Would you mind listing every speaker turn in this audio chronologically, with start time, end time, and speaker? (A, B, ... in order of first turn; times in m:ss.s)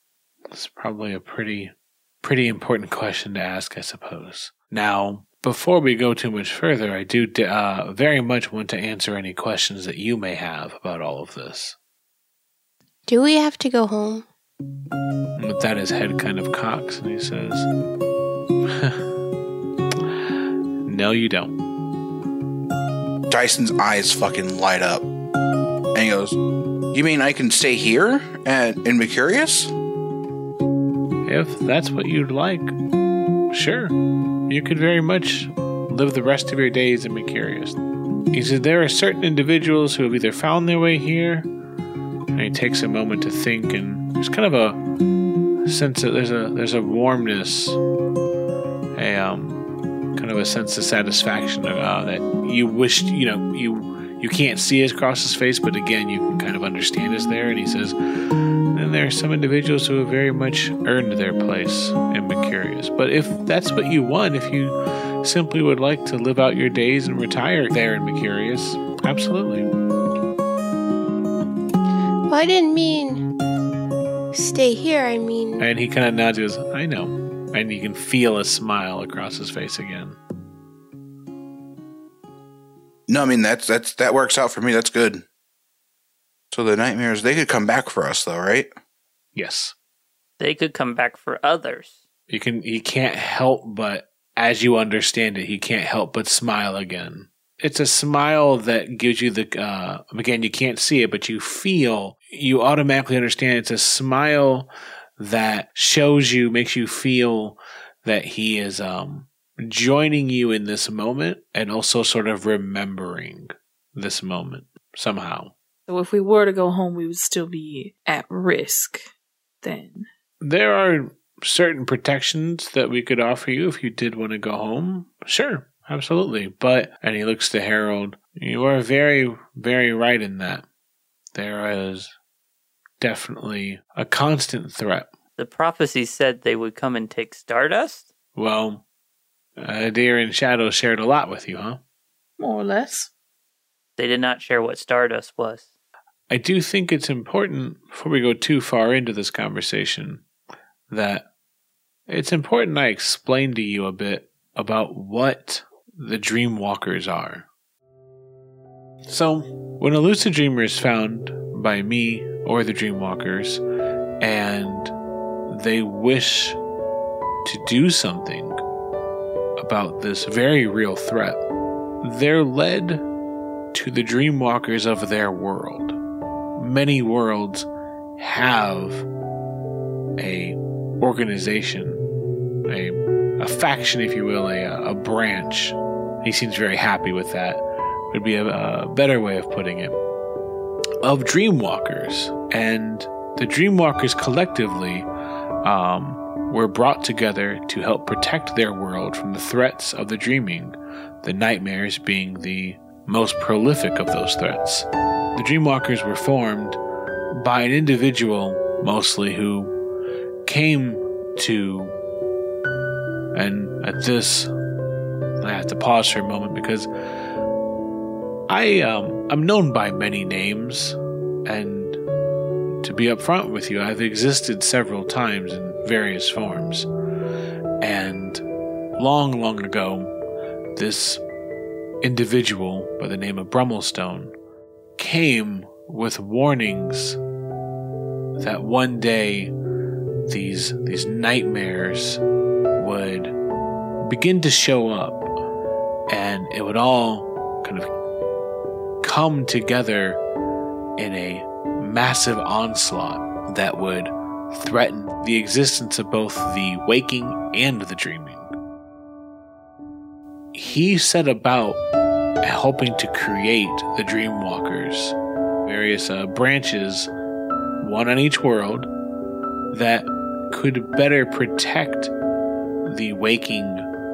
0:00.5-0:11.8 A
0:13.1-0:14.2 B
0:15.4-0:17.7 A
0:18.7-0:19.0 A
0:20.8-0:21.6 A
0:23.3-0:25.1 C
0:25.9-0:26.4 C
0:26.9-0:29.7 C
0:31.3-0:32.8 A
0:33.5-0:34.0 A
0:34.5-0:37.8 A
0:38.3-0:41.5 A
0:42.3-0:44.8 A
0:45.7-0:47.8 A
0:49.0-0:58.0 A
0:58.7-1:09.7 A
1:12.3-1:13.3 B
1:14.3-1:15.6 B
1:15.6-1:20.2 A
1:23.1-1:25.3 C
1:26.5-1:28.7 C
1:29.4-1:29.8 A
1:30.4-1:32.0 D
1:32.3-1:55.5 A
1:55.9-1:59.1 E
1:59.6-2:00.1 E
2:00.4-2:10.7 A
2:11.3-2:12.1 A
2:13.0-2:15.1 A
2:15.4-2:18.1 D
2:18.4-2:18.8 A
2:19.6-2:21.8 A
2:22.4-2:23.1 E
2:24.0-2:25.7 D
2:26.3-2:30.2 A
2:30.9-2:31.3 A
2:32.1-2:37.5 A
2:39.1-2:43.6 A
2:44.2-2:44.9 A
2:45.5-2:46.6 A
2:47.4-2:48.6 A
2:49.6-2:51.4 A
2:52.0-2:53.0 A
2:53.7-2:56.0 A
2:56.6-2:57.7 A
2:58.2-2:59.1 A
3:00.2-3:02.0 A
3:02.6-3:10.0 A
3:11.0-3:15.1 A
3:15.6-3:26.8 A
3:27.3-3:29.7 A
3:30.4-3:32.0 A
3:33.3-3:34.5 A
3:35.4-3:36.9 A
3:38.5-3:42.0 A
3:42.8-3:46.9 A
3:47.8-3:48.4 A
3:49.0-3:50.2 A
3:50.8-3:51.2 A
3:52.0-3:54.4 A
3:55.0-3:57.2 A
3:58.4-3:59.5 A
4:00.3-4:02.2 A
4:02.8-4:03.4 A
4:04.0-4:05.3 A
4:06.1-4:07.9 A
4:09.0-4:10.2 A
4:11.0-4:18.5 A
4:20.5-4:21.8 A
4:22.4-4:27.1 A
4:27.8-4:28.9 A
4:29.7-4:32.1 A
4:32.8-4:33.9 A